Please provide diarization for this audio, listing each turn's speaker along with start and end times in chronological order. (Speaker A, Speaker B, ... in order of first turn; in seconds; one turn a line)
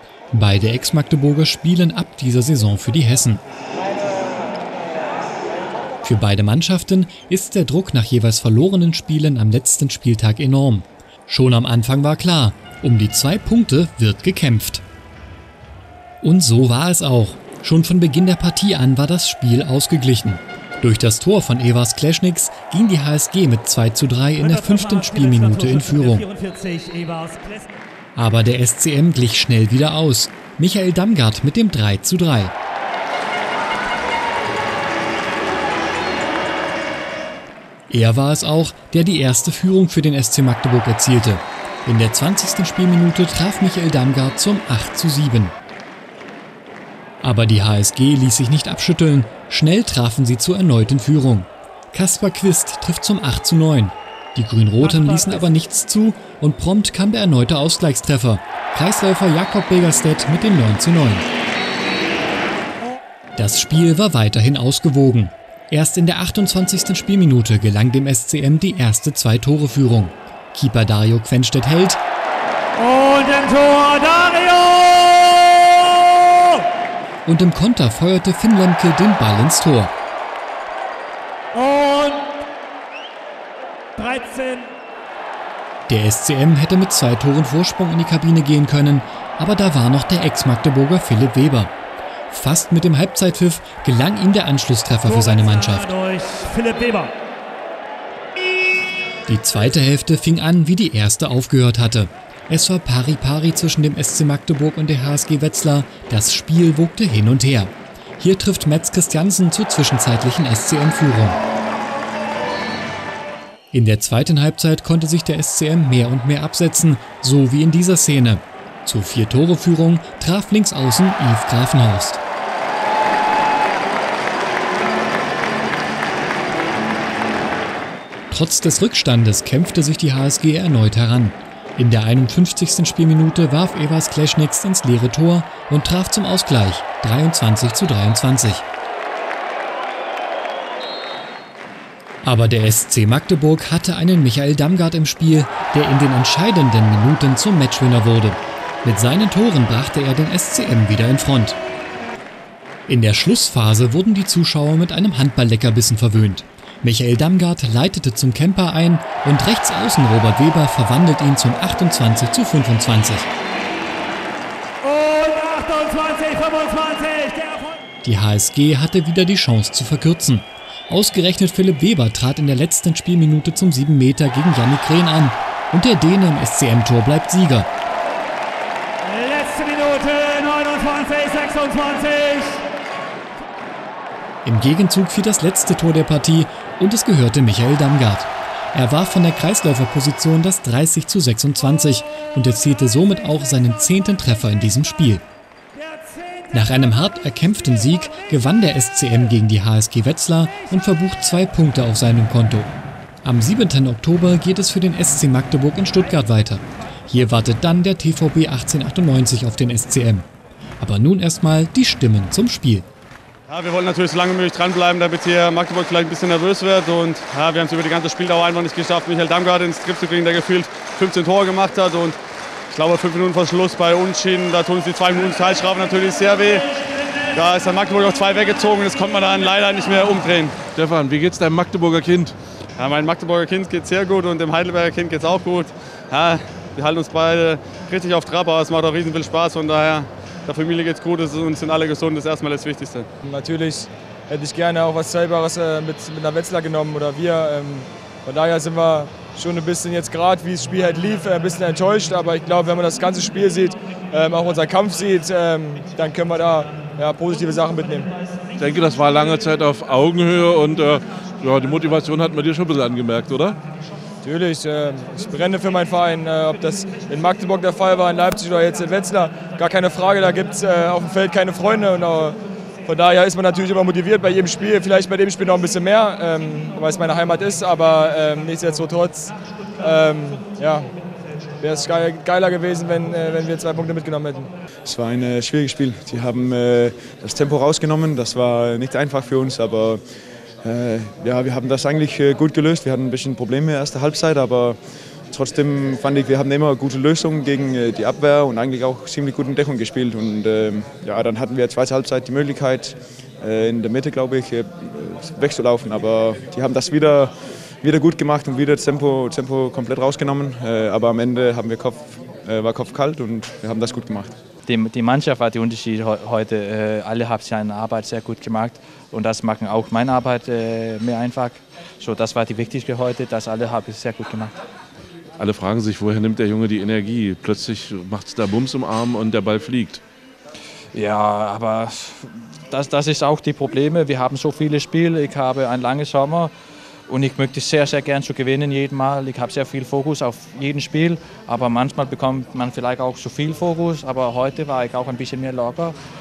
Speaker A: 0.3-3.4
Speaker A: 6.0-14.8
Speaker A: 16.2-26.2
Speaker B: 24.4-27.7
Speaker A: 28.1-32.5
Speaker A: 37.9-45.5
Speaker A: 47.2-61.2
Speaker B: 54.8-55.5
Speaker A: 63.4-72.0
Speaker B: 72.8-76.6
Speaker A: 77.2-79.9
Speaker B: 81.5-82.4
Speaker B: 84.0-84.7
Speaker A: 85.9-91.7
Speaker A: 92.3-95.9
Speaker B: 95.0-97.1
Speaker A: 99.3-111.4
Speaker A: 113.7-122.2
Speaker A: 128.3-138.6
Speaker A: 142.2-151.6
Speaker A: 152.9-163.3
Speaker B: 164.8-167.8
Speaker A: 168.0-177.7
Speaker B: 179.0-182.6
Speaker A: 184.4-195.2
Speaker A: 196.5-202.7
Speaker A: 203.2-210.2
Speaker A: 210.8-212.8
Speaker C: 213.5-222.2
Speaker C: 222.7-226.8
Speaker C: 227.3-230.6
Speaker D: 230.7-232.3
Speaker C: 232.8-243.1
Speaker E: 243.3-258.0
Speaker D: 258.6-263.6
Speaker E: 264.2-272.3
Speaker E: 272.9-279.1
Speaker E: 279.8-280.8
Speaker E: 281.6-284.3
Speaker F: 284.8-290.0
Speaker F: 290.6-294.8
Speaker F: 295.3-314.3
Speaker G: 314.6-324.5
Speaker D: 325.4-330.0
Speaker G: 330.9-336.5
Speaker G: 337.1-345.9